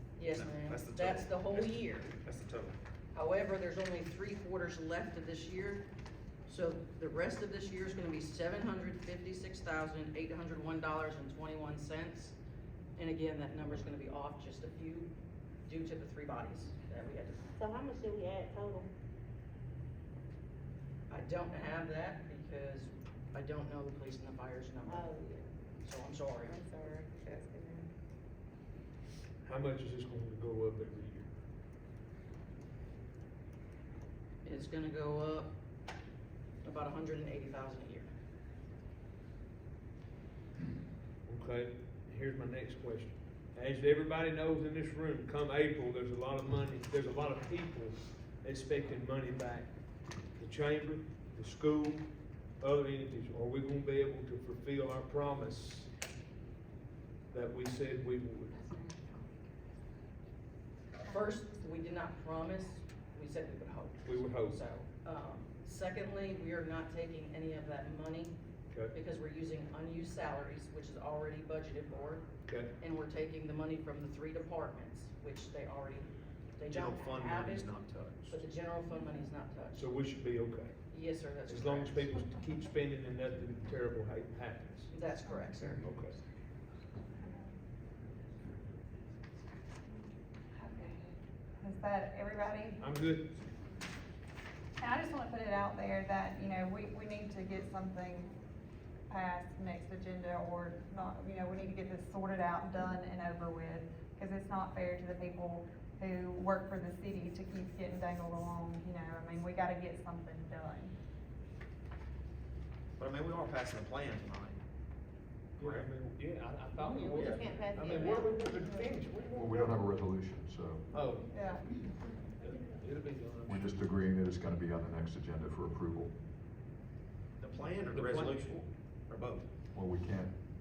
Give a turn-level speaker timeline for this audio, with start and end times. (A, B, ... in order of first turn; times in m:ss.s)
0:00.2-0:02.1 A
0:00.3-0:02.8 B
0:03.1-0:05.8 A
0:06.5-0:12.4 A
0:13.0-0:15.1 A
0:15.6-0:17.5 A
0:17.6-0:18.9 C
0:21.1-0:25.1 A
0:24.8-0:25.5 C
0:25.8-0:26.6 A
0:26.4-0:27.9 C
0:29.4-0:31.3 D
0:34.4-0:35.5 A
0:36.6-0:38.1 A
0:41.2-0:49.7 D
0:50.3-0:52.0 D
0:52.6-0:55.9 D
0:57.3-0:58.7 D
1:01.0-1:08.4 A
1:04.0-1:04.6 D
1:08.9-1:17.7 A
1:12.4-1:12.7 D
1:16.7-1:17.9 B
1:17.5-1:18.3 D
1:18.3-1:19.8 A
1:19.7-1:20.7 D
1:20.9-1:22.0 A
1:21.4-1:24.9 D
1:24.9-1:25.8 A
1:25.8-1:26.2 D
1:30.5-1:32.8 E
1:32.8-1:33.3 D
1:34.8-1:38.4 E
1:39.1-1:50.9 E
1:53.0-1:54.6 B
1:55.6-1:55.9 B
1:55.6-1:59.9 D
1:57.1-1:58.5 C
1:58.5-1:59.0 E
1:59.3-2:00.8 F
2:00.9-2:03.7 D
2:01.3-2:01.7 E
2:03.4-2:06.1 F
2:07.4-2:09.5 B
2:07.9-2:08.4 D
2:09.7-2:10.3 F